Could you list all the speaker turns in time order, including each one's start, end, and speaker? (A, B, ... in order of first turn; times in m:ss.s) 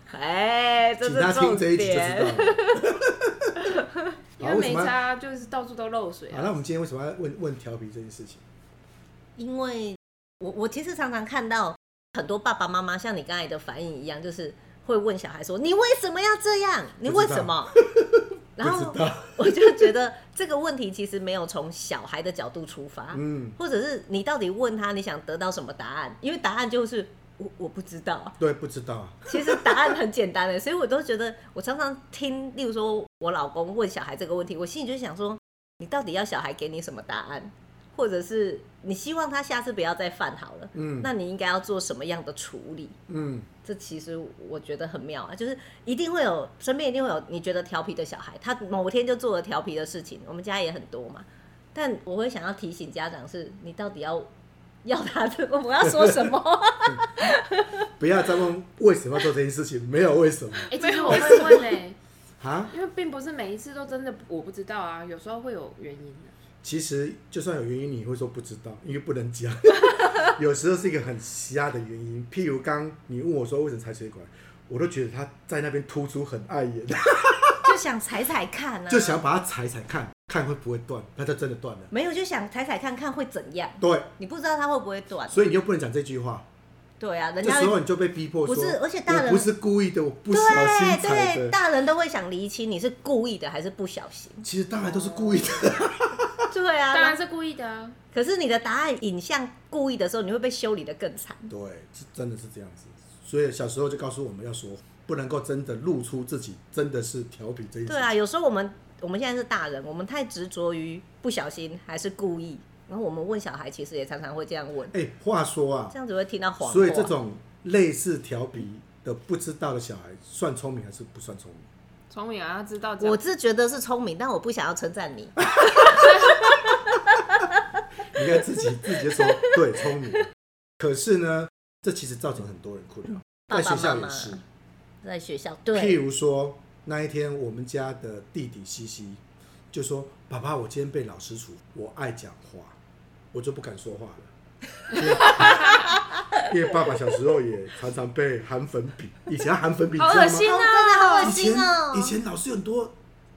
0:00.1-0:02.9 A
0:01.0-0:03.7 B
0:04.4-0:06.6 C
0:04.4-0:05.0 B
0:06.3-0:08.4 B
0:09.4-0:17.8 A
0:17.0-0:19.9 B
0:18.6-0:28.4 A
0:23.1-0:23.6 B
0:28.4-0:30.0 B
0:29.3-0:43.0 A
0:40.7-0:41.1 B
0:43.1-0:43.5 B
0:43.6-0:54.3 A
0:54.8-0:57.9 A
0:55.9-0:56.3 B
0:58.0-1:01.6 B
1:00.7-1:02.0 C
1:00.8-1:01.6 A
1:02.4-1:02.7 B
1:02.7-1:06.3 C
1:06.6-1:17.8 B
1:17.6-1:19.2 A
1:18.9-1:21.9 B
1:21.9-1:25.5 A
1:23.8-1:24.1 B
1:25.3-1:26.5 B
1:27.0-1:27.8 A
1:27.4-1:31.6 B
1:28.4-1:29.5 A
1:30.3-1:34.4 A
1:34.4-1:36.5 B
1:36.5-1:37.2 A
1:36.9-1:38.0 C
1:38.1-1:41.5 A
1:41.5-1:48.1 B
1:47.9-1:54.9 A
1:54.9-1:56.0 B
1:55.9-1:57.1 A
1:56.6-2:01.7 B
2:02.1-2:03.2 C
2:03.0-2:06.5 A
2:05.6-2:06.0 B
2:07.3-2:07.6 A
2:08.1-2:14.4 B
2:09.1-2:09.8 A
2:13.5-2:14.4 A
2:15.0-2:16.0 A
2:15.7-2:19.2 B
2:19.7-2:22.8 B
2:23.3-2:24.3 B
2:24.9-2:30.5 B
2:30.0-2:31.4 C
2:30.4-2:32.2 A
2:31.2-2:33.0 B